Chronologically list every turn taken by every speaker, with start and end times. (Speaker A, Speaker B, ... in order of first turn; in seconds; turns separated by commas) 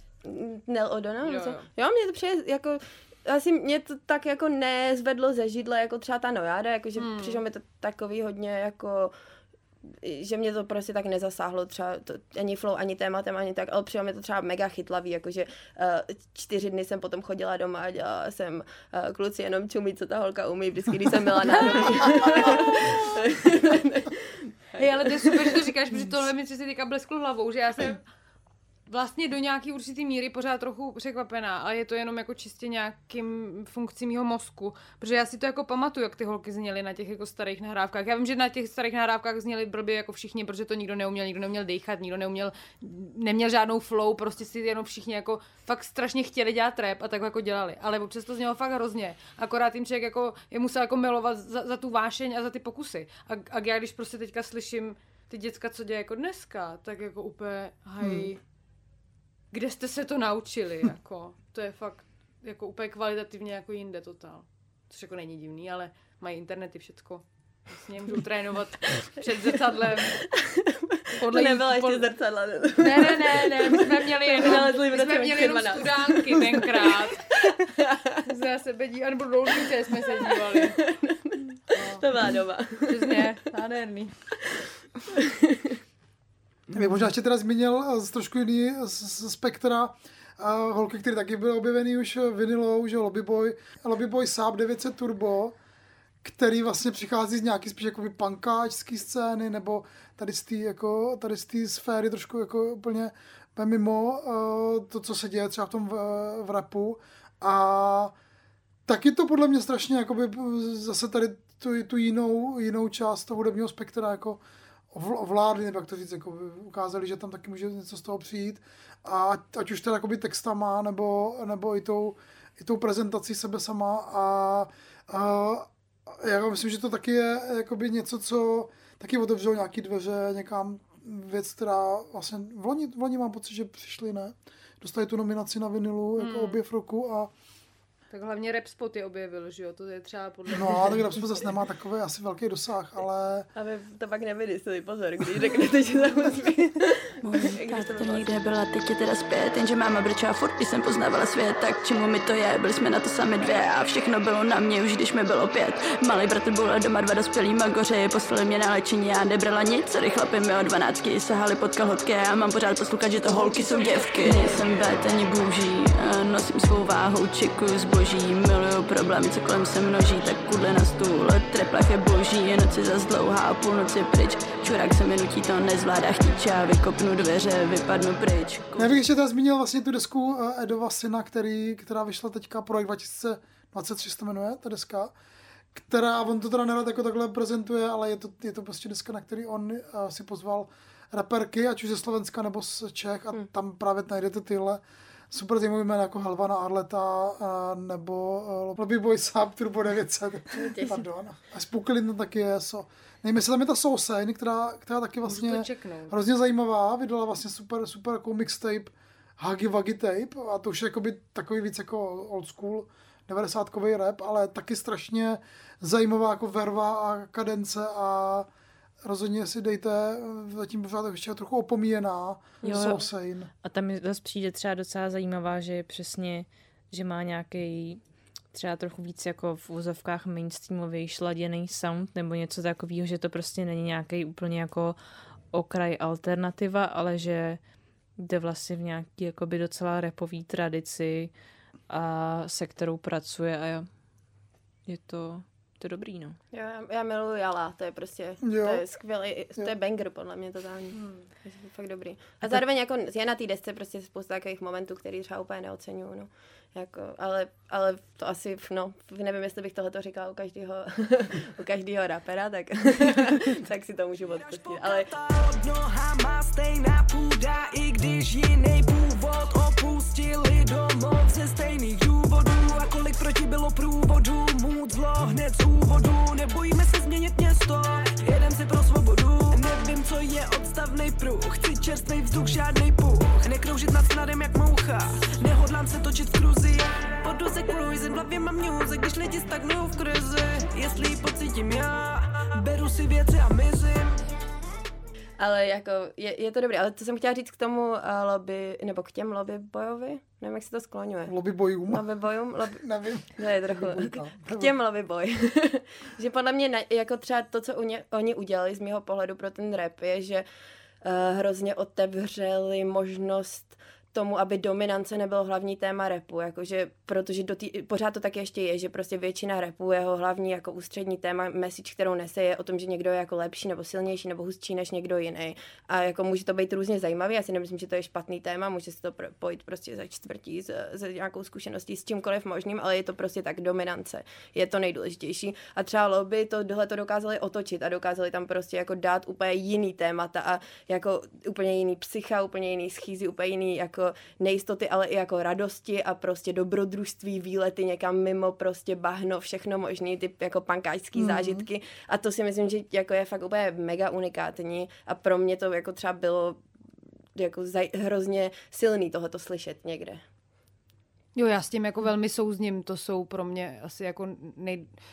Speaker A: 0.2-9.2, Speaker B: 1.2-1.7, Speaker B: 7.0-7.4, Speaker A: 10.0-25.6, Speaker B: 21.6-23.0, Speaker B: 24.8-28.0, Speaker B: 28.9-58.4, Speaker C: 58.0-58.3, Speaker B: 59.5-70.2, Speaker A: 70.2-78.2, Speaker B: 71.2-72.1, Speaker B: 72.8-77.3, Speaker B: 78.3-80.8, Speaker A: 80.3-83.3, Speaker B: 82.9-84.2, Speaker A: 85.2-85.8, Speaker C: 86.7-95.5, Speaker C: 96.2-108.1, Speaker C: 108.9-114.4, Speaker C: 114.9-137.3, Speaker B: 136.2-136.6, Speaker B: 138.1-141.2, Speaker C: 140.5-143.5, Speaker A: 143.6-148.4, Speaker D: 147.2-178.9, Speaker C: 178.8-185.1, Speaker C: 185.7-218.5, Speaker A: 200.7-201.0, Speaker B: 205.3-206.2, Speaker C: 219.0-223.5, Speaker E: 222.6-223.1, Speaker E: 223.6-228.0, Speaker E: 228.5-235.0, Speaker E: 235.5-237.6, Speaker E: 238.2-241.3, Speaker E: 241.9-243.9, Speaker E: 244.9-246.4, Speaker A: 246.5-265.1, Speaker C: 248.4-248.8, Speaker B: 250.9-251.3, Speaker F: 264.3-294.2, Speaker A: 295.4-301.3, Speaker C: 301.3-302.0, Speaker A: 301.9-302.8, Speaker C: 302.7-304.8, Speaker A: 303.4-310.4, Speaker A: 311.0-356.6, Speaker C: 351.1-351.7, Speaker A: 357.4-360.2, Speaker B: 361.4-364.9